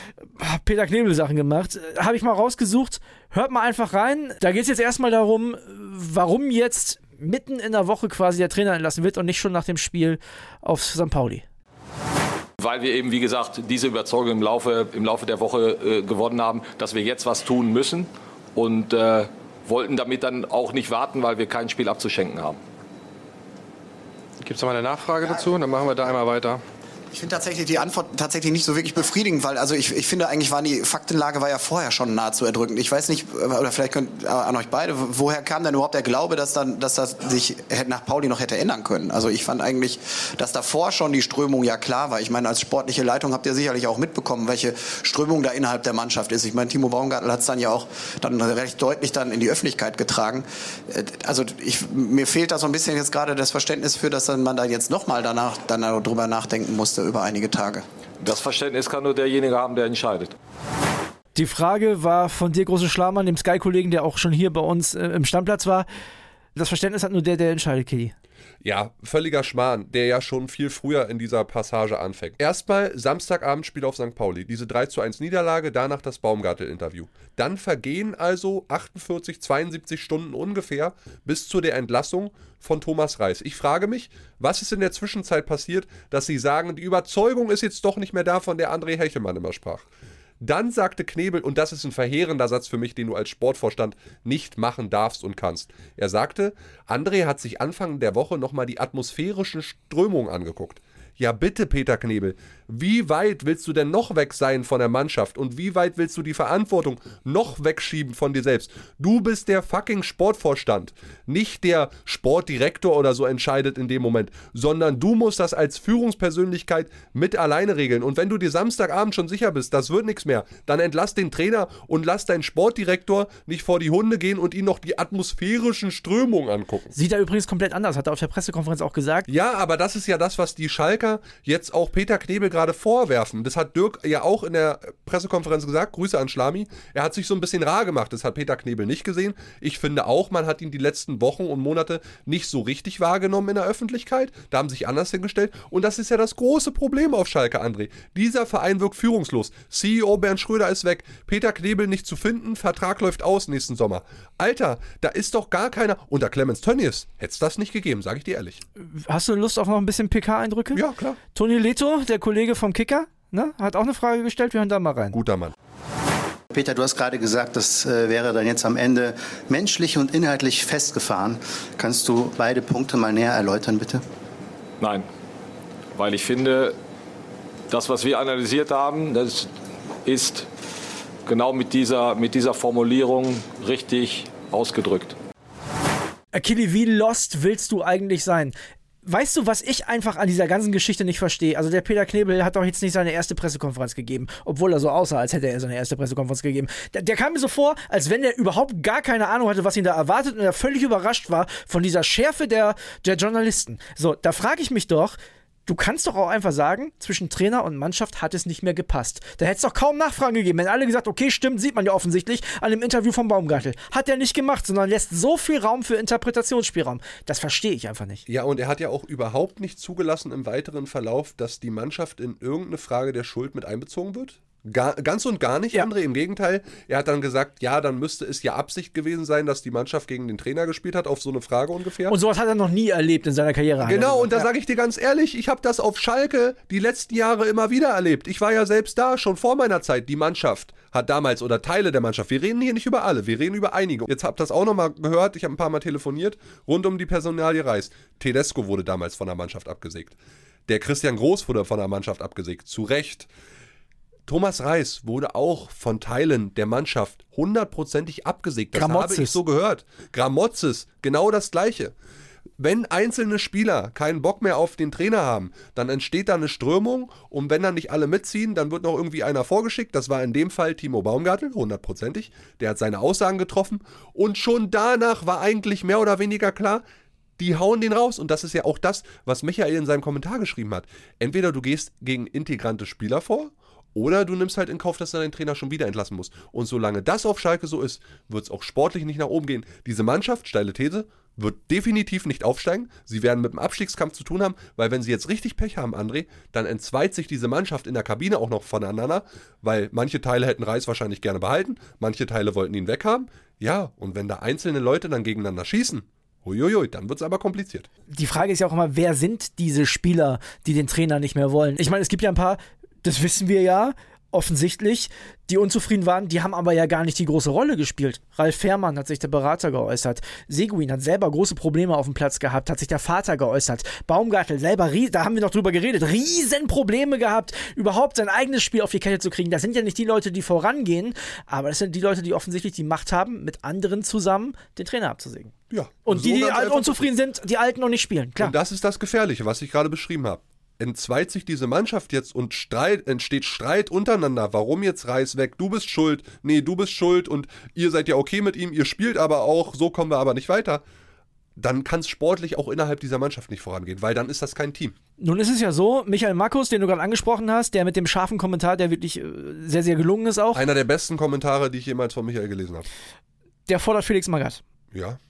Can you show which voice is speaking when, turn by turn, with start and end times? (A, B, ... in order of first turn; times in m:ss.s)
0:00.2-0:11.4 A
0:12.6-0:22.6 B
0:24.4-0:26.6 C
0:27.1-0:57.8 D
0:58.2-1:00.3 B
1:01.3-1:05.9 A
1:06.5-1:08.1 A
1:08.6-1:29.8 E
1:30.4-2:06.9 E
2:06.9-2:09.3 A
2:09.3-2:38.6 E
2:38.8-2:40.8 A
2:40.7-2:41.2 E
2:41.3-2:45.2 A
2:45.1-2:45.5 E
2:46.5-2:54.0 F
2:54.8-2:55.0 B
2:55.9-2:56.8 B
2:57.7-2:59.5 B
3:00.0-3:00.5 B
3:01.2-3:05.2 B
3:06.3-3:38.2 A
3:38.3-3:52.2 E
3:52.1-3:54.5 A
3:53.8-4:13.3 E
4:14.3-4:21.9 E
4:18.7-4:19.4 A
4:22.6-4:36.8 E
4:37.4-5:07.9 E
5:08.1-5:35.5 A
5:35.7-5:37.1 E
5:36.0-5:38.5 A
5:38.4-5:50.8 E
5:51.6-5:54.9 E
5:55.2-6:00.7 A
6:00.5-6:02.9 E
6:03.7-6:04.6 A
6:04.9-6:05.2 E